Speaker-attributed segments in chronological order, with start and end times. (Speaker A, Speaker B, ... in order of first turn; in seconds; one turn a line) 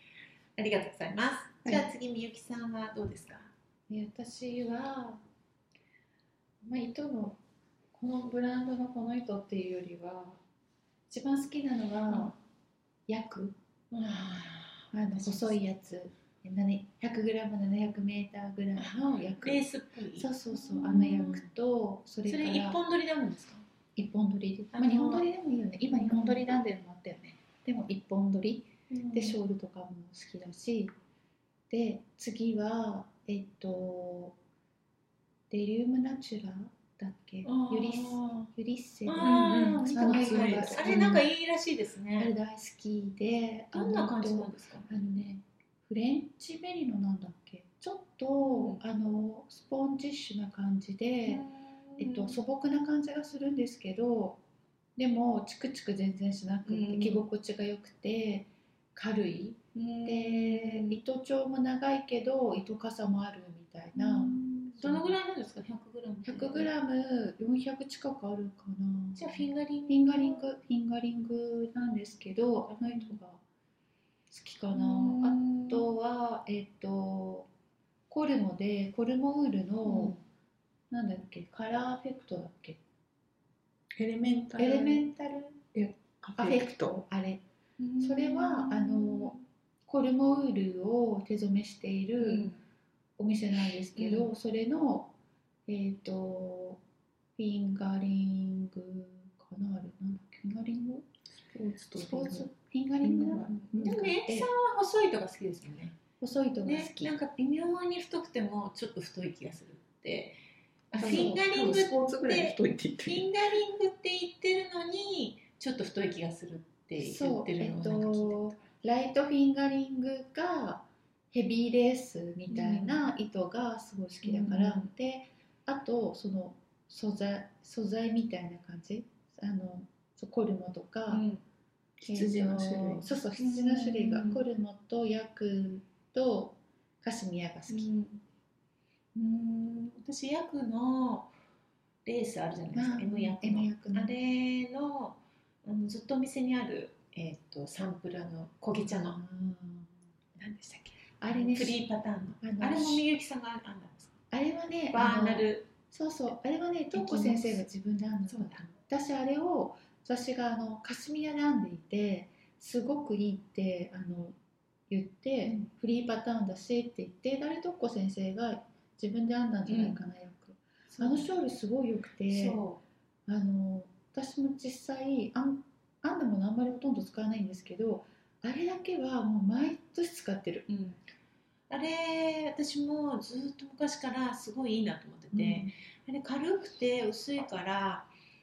Speaker A: 0.6-3.5
Speaker B: 3.9-5.2
Speaker B: 6.6-7.4
Speaker B: 7.9-10.4
Speaker B: 11.1-12.4
Speaker A: 12.1-12.3
Speaker B: 13.1-13.5
Speaker A: 13.9-15.6
Speaker B: 14.9-22.8
Speaker A: 18.8-21.5
Speaker A: 22.3-23.6
Speaker B: 24.0-30.9
Speaker A: 24.7-25.3
Speaker A: 25.8-26.4
Speaker A: 28.9-29.4
Speaker B: 31.7-34.4
Speaker B: 35.5-41.3
Speaker A: 37.4-38.5
Speaker A: 39.1-42.3
Speaker C: 39.2-41.1
Speaker B: 42.2-51.5
Speaker A: 43.7-44.9
Speaker A: 48.4-48.8
Speaker A: 51.3-52.4
Speaker B: 52.0-54.4
Speaker B: 55.0-65.2
Speaker A: 56.7-57.2
Speaker A: 59.8-61.0
Speaker A: 64.0-66.7
Speaker B: 66.2-73.4
Speaker A: 69.2-70.4
Speaker A: 72.7-73.2
Speaker B: 74.3-77.5
Speaker A: 74.7-75.8
Speaker B: 78.1-80.2
Speaker A: 79.8-80.2
Speaker B: 80.9-82.8
Speaker C: 84.0-85.0
Speaker B: 84.6-85.6
Speaker C: 85.7-87.1
Speaker B: 86.4-87.4
Speaker A: 87.8-89.4
Speaker B: 88.0-89.3
Speaker B: 89.9-92.5
Speaker A: 92.2-92.6
Speaker B: 93.2-95.1
Speaker A: 94.0-94.3
Speaker B: 95.7-96.8
Speaker B: 97.4-101.1
Speaker C: 101.5-102.5
Speaker B: 102.0-104.5
Speaker C: 103.0-104.2
Speaker A: 103.8-106.0
Speaker B: 106.2-107.1
Speaker A: 106.6-110.4
Speaker A: 110.9-118.7
Speaker C: 111.0-113.3
Speaker B: 111.0-111.4
Speaker B: 117.0-131.3
Speaker A: 122.5-123.0
Speaker A: 124.2-124.9
Speaker A: 131.1-131.4
Speaker C: 132.0-133.2
Speaker B: 132.1-137.9
Speaker A: 133.3-134.4
Speaker A: 137.7-138.2
Speaker A: 139.2-141.3
Speaker A: 142.1-149.2
Speaker B: 142.7-144.2
Speaker B: 148.8-149.9
Speaker A: 150.4-154.1
Speaker B: 151.0-151.9
Speaker B: 152.4-153.1
Speaker B: 154.3-164.3
Speaker A: 154.9-155.7
Speaker A: 156.9-157.7
Speaker A: 158.3-158.7
Speaker B: 164.9-172.6
Speaker A: 169.7-170.0
Speaker A: 170.9-171.3
Speaker A: 172.3-172.8
Speaker B: 173.3-180.7
Speaker A: 180.7-181.0
Speaker A: 181.7-188.1
Speaker B: 185.3-185.7